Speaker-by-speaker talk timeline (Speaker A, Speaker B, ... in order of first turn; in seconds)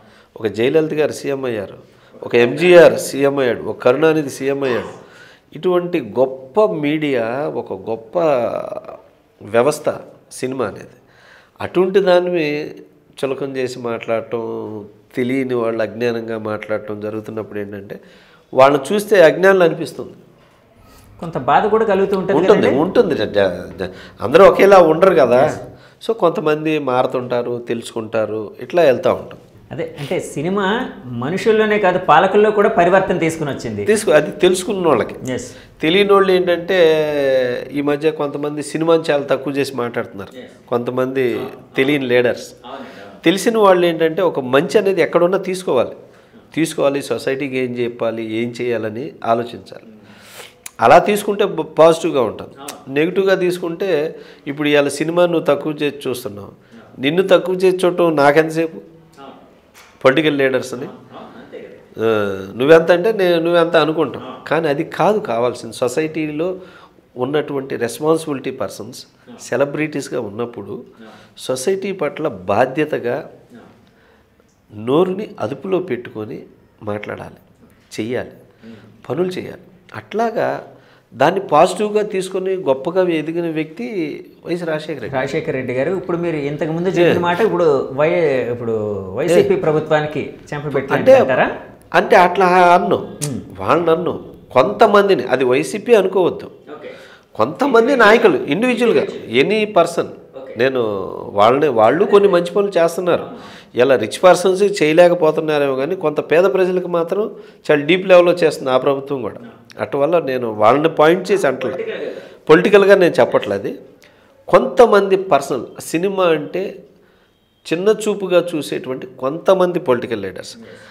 Speaker A: 0.4-5.0, 5.5-9.0, 9.5-11.0, 11.6-12.6, 13.2-18.0, 18.6-20.2, 22.3-25.5, 26.0-29.4, 33.9-35.2, 35.8-42.5, 43.2-46.0, 46.5-49.8, 50.8-53.9, 54.5-58.8, 60.0-60.9, 62.0-66.5, 67.2-70.8, 71.4-73.2, 74.8-77.4, 77.9-78.3, 79.1-80.5, 81.2-83.9, 84.5-85.2, 86.9-87.2, 90.7-91.3, 92.0-93.1, 93.6-96.5, 97.4-100.8, 101.4-103.3, 103.8-111.8, 112.5-113.7, 114.5-116.7, 117.7-120.5
Speaker B: 2.3-2.9, 21.2-22.8, 29.7-30.7, 31.2-33.9, 35.2-35.5, 41.5-42.0, 42.7-43.2, 60.8-61.8, 85.1-91.5, 96.7-97.0, 97.6-99.3, 102.0-102.3, 103.2-103.5, 111.3-112.3